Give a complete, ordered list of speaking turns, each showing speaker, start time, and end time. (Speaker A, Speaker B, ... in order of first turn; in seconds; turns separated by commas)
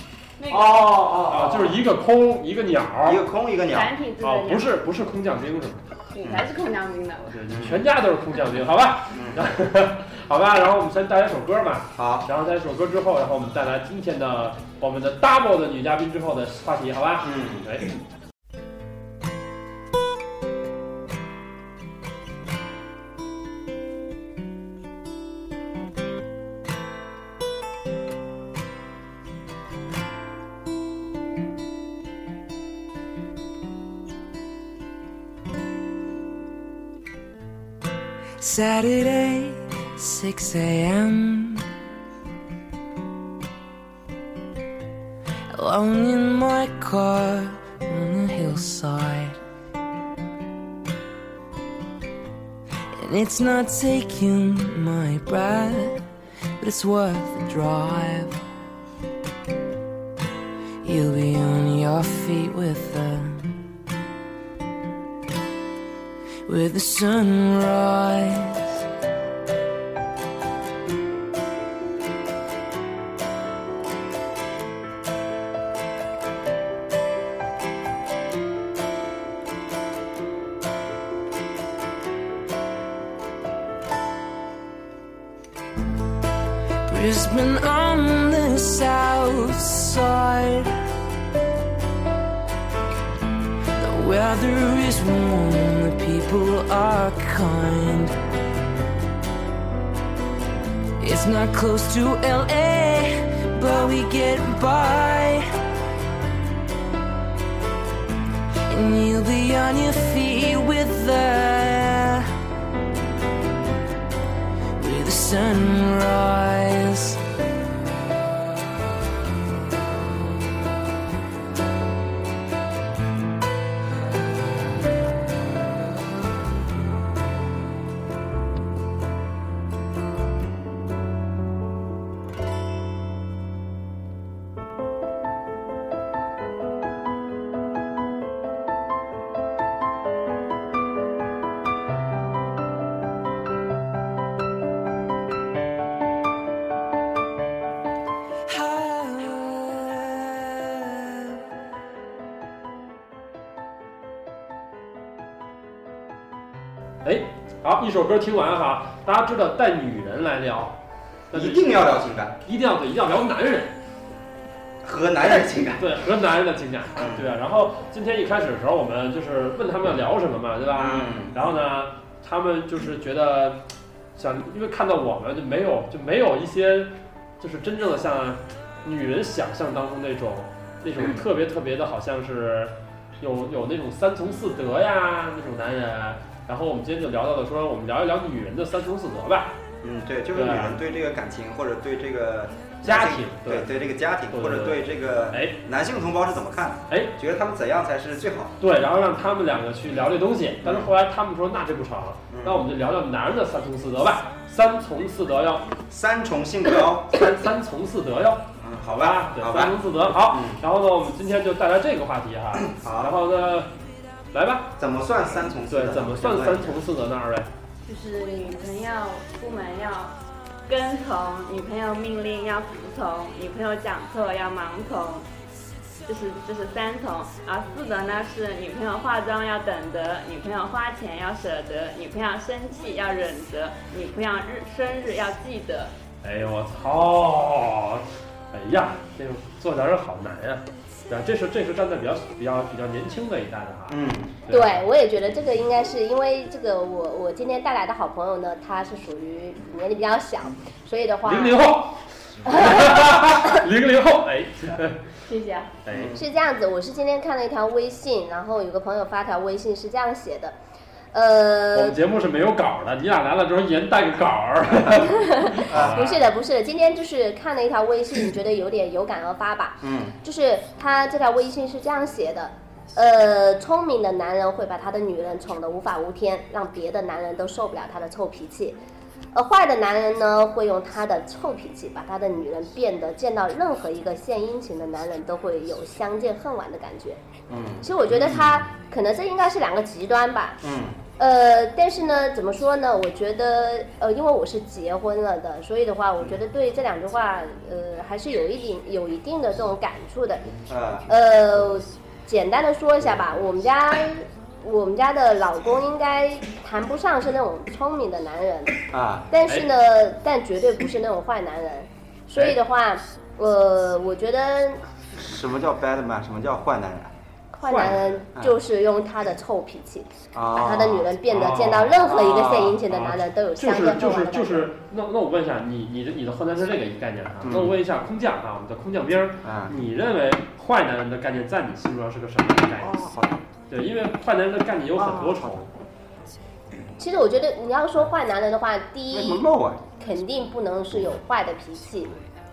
Speaker A: 0.4-1.0, Speaker B: 0.5-1.8, Speaker C: 1.3-3.2, Speaker B: 3.0-4.0, Speaker A: 3.7-4.7, Speaker C: 4.2-5.8, Speaker A: 6.1-7.3, Speaker C: 7.3-17.9, Speaker B: 7.5-7.8, Speaker B: 9.1-9.5, Speaker B: 12.0-12.3, Speaker B: 17.2-17.7, Speaker D: 38.4-41.7, Speaker D: 45.5-49.4, Speaker D: 52.9-56.0, Speaker D: 56.6-58.4, Speaker D: 60.8-63.6, Speaker D: 66.5-68.8, Speaker D: 86.9-90.7, Speaker D: 93.8-98.2, Speaker D: 101.0-105.5, Speaker D: 108.7-112.3, Speaker D: 114.8-117.2, Speaker D: 148.5-151.4, Speaker C: 157.0-160.8, Speaker C: 161.3-163.8, Speaker B: 161.3-162.4, Speaker B: 164.8-165.9, Speaker C: 165.8-173.6, Speaker B: 167.0-167.2, Speaker B: 170.8-171.4, Speaker C: 174.2-189.6, Speaker B: 189.8-198.6, Speaker C: 190.3-190.8, Speaker C: 192.8-193.7, Speaker C: 194.3-195.6, Speaker C: 198.6-205.7, Speaker B: 200.6-200.9, Speaker B: 202.3-202.6, Speaker B: 205.9-207.2, Speaker C: 207.1-213.7, Speaker B: 208.6-210.6, Speaker B: 212.7-213.1, Speaker C: 214.3-214.7, Speaker B: 214.8-216.8, Speaker C: 215.7-217.5, Speaker A: 217.9-220.1, Speaker A: 220.7-225.2, Speaker A: 226.1-235.9, Speaker C: 236.2-244.8, Speaker B: 243.9-244.4, Speaker E: 244.5-251.7, Speaker C: 251.3-255.1, Speaker E: 252.5-253.5, Speaker A: 255.3-255.7, Speaker C: 255.8-256.2, Speaker B: 255.9-256.2, Speaker E: 256.1-260.5, Speaker E: 261.1-262.0, Speaker C: 261.7-266.3, Speaker E: 265.1-278.8, Speaker B: 265.7-266.0, Speaker B: 269.8-270.2, Speaker E: 279.3-287.2, Speaker B: 287.5-288.6, Speaker E: 287.8-290.6, Speaker B: 290.6-291.0, Speaker E: 291.2-308.8, Speaker B: 300.7-301.1, Speaker B: 308.9-309.3, Speaker E: 309.3-314.9, Speaker B: 315.1-317.1, Speaker E: 317.5-324.7, Speaker C: 317.7-318.2, Speaker B: 317.8-318.6, Speaker B: 320.3-321.1, Speaker C: 321.2-333.1, Speaker B: 322.0-322.8, Speaker B: 327.4-327.8, Speaker B: 329.4-329.8, Speaker B: 332.8-333.4, Speaker C: 333.7-335.7, Speaker B: 335.0-335.5, Speaker E: 337.0-339.4, Speaker B: 339.1-339.8, Speaker E: 340.0-342.1